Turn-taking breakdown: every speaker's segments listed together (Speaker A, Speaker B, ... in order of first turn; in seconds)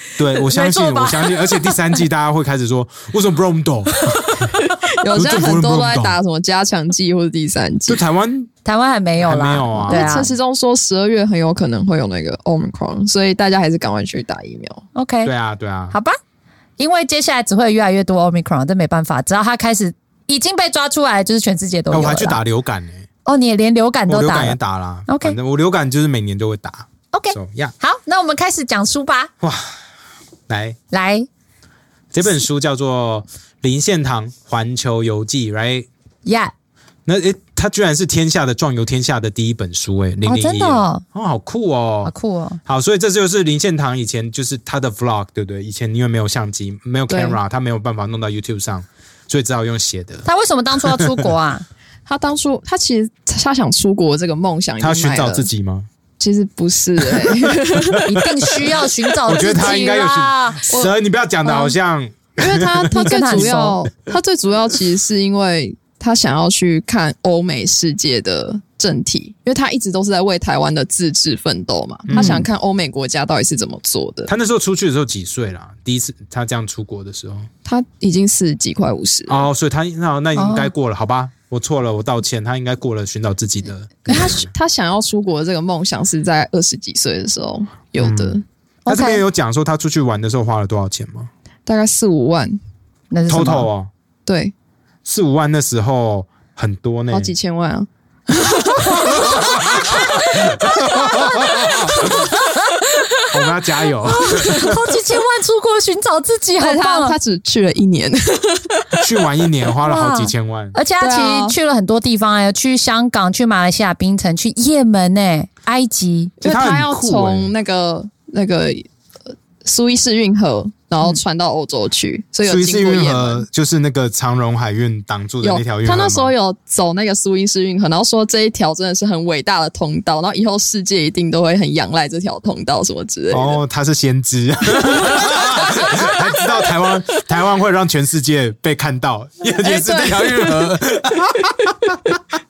Speaker A: 0.2-4.5, 5.1-6.2, 7.9-8.5, 9.2-10.1, 15.2-15.9, 21.9-23.1, 24.1-27.7, 29.4-29.8, 30.5-30.8, 32.1-35.9, 37.0-42.1, 42.6-50.2, 50.8-51.3, 54.8-55.9, 57.0-58.6, 59.2-63.5, 72.1-72.5, 74.3-77.5, 79.3-84.5, 88.0-91.3, 93.3-93.9, 95.0-97.3, 98.9-102.3, 103.3-104.8, 109.0-110.8, 116.4-117.5, 122.4-126.3, 133.3-142.2
Speaker B: 0.3-1.8, 8.6-10.3, 14.9-15.3, 16.8-22.4, 23.2-25.4, 27.1-29.3, 30.9-31.3, 36.2-36.5, 40.2-41.0, 42.0-42.6, 50.2-51.6, 58.0-60.6, 61.4-61.7, 63.0-63.8, 72.1-72.4, 80.3-80.7, 88.8-89.2, 93.1-93.7, 99.0-107.2, 109.8-116.3
Speaker C: 4.4-8.0, 9.9-14.8, 47.1-47.4, 52.0-55.5, 56.2-58.4, 62.4-74.3, 77.6-79.4, 84.1-88.4, 91.7-92.6, 94.2-94.5, 97.1-100.1, 106.6-109.1, 111.0-111.5, 116.4-123.4, 125.4-133.6, 134.8-136.9, 139.6-140.8